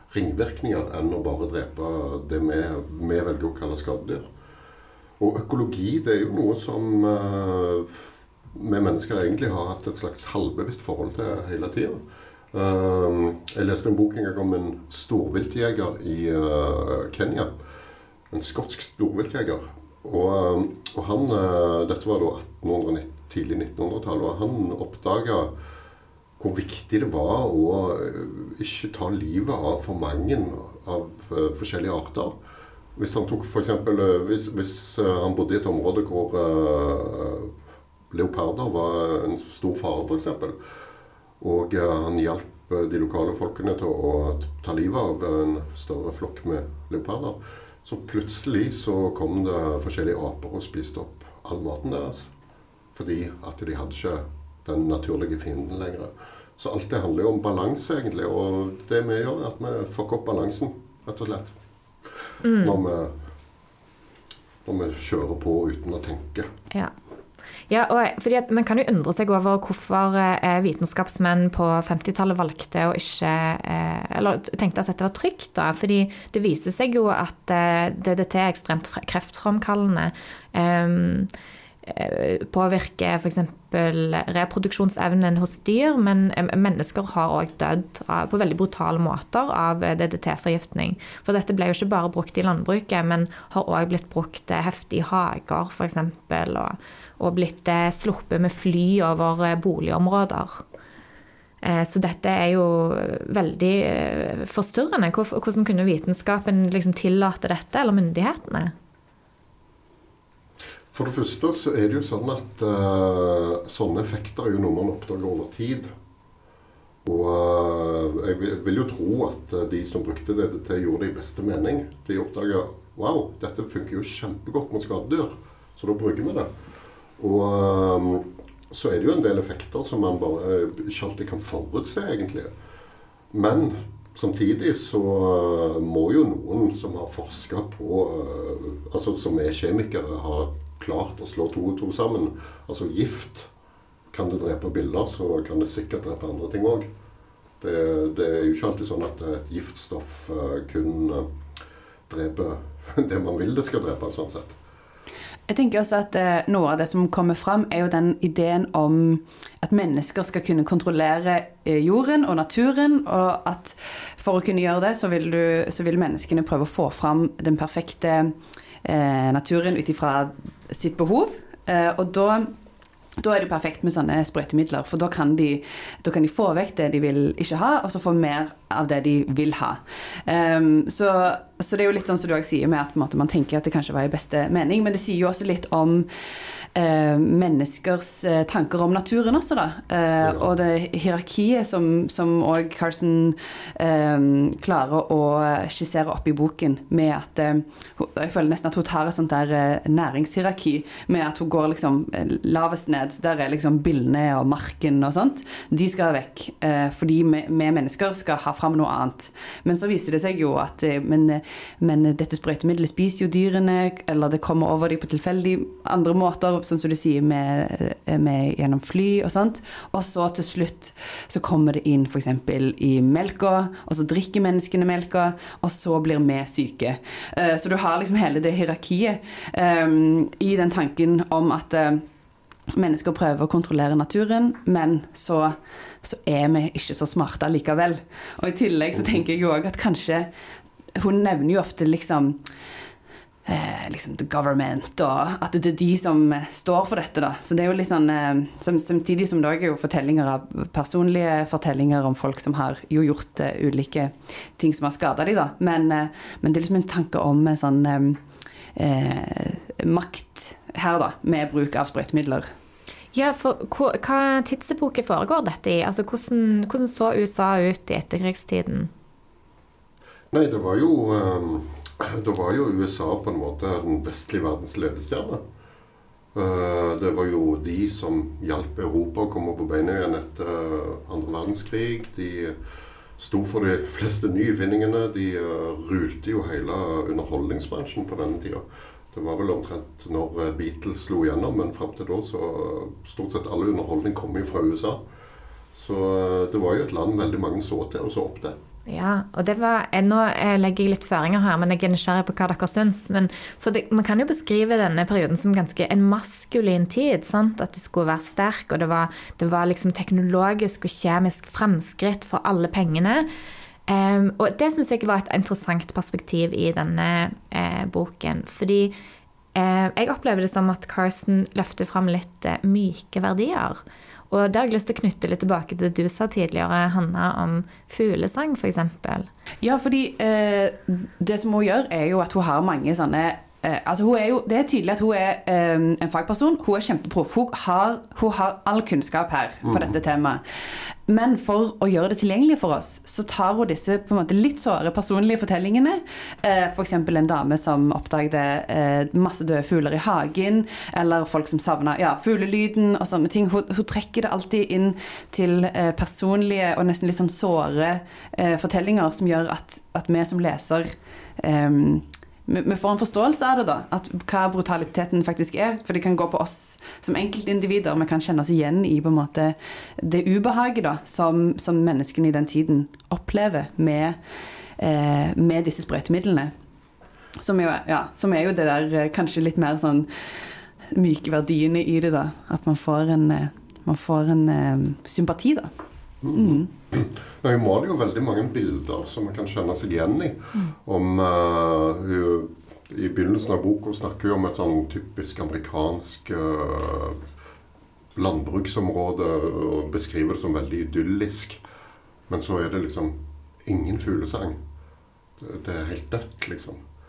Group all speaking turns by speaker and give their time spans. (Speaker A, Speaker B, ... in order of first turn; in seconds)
Speaker A: 0.1-4.3, 5.2-12.0, 12.5-17.6, 18.3-25.5, 26.4-32.4, 33.0-37.5, 38.1-40.5, 41.4-52.3, 52.9-61.5, 62.6-63.1, 64.6-66.5, 110.9-115.9, 117.0-126.5, 127.2-132.5, 133.3-143.5, 144.1-146.9, 147.6-151.3, 152.1-154.6, 190.2-190.5, 270.3-275.4, 276.3-282.6, 283.2-295.0, 295.7-298.6, 339.6-339.9, 386.2-397.2, 398.1-401.6, 402.3-404.6, 405.4-406.8
Speaker B: 62.4-62.8, 67.7-81.3, 81.8-100.6, 101.6-108.7, 263.1-268.9, 298.9-313.3, 313.9-318.9, 319.5-329.3
Speaker C: 155.5-172.5, 173.2-186.1, 186.7-232.0, 232.7-240.3, 240.9-242.4, 243.4-258.2, 258.7-262.5, 329.6-374.2, 374.8-376.5, 377.4-380.1, 380.9-385.7, 386.3-386.7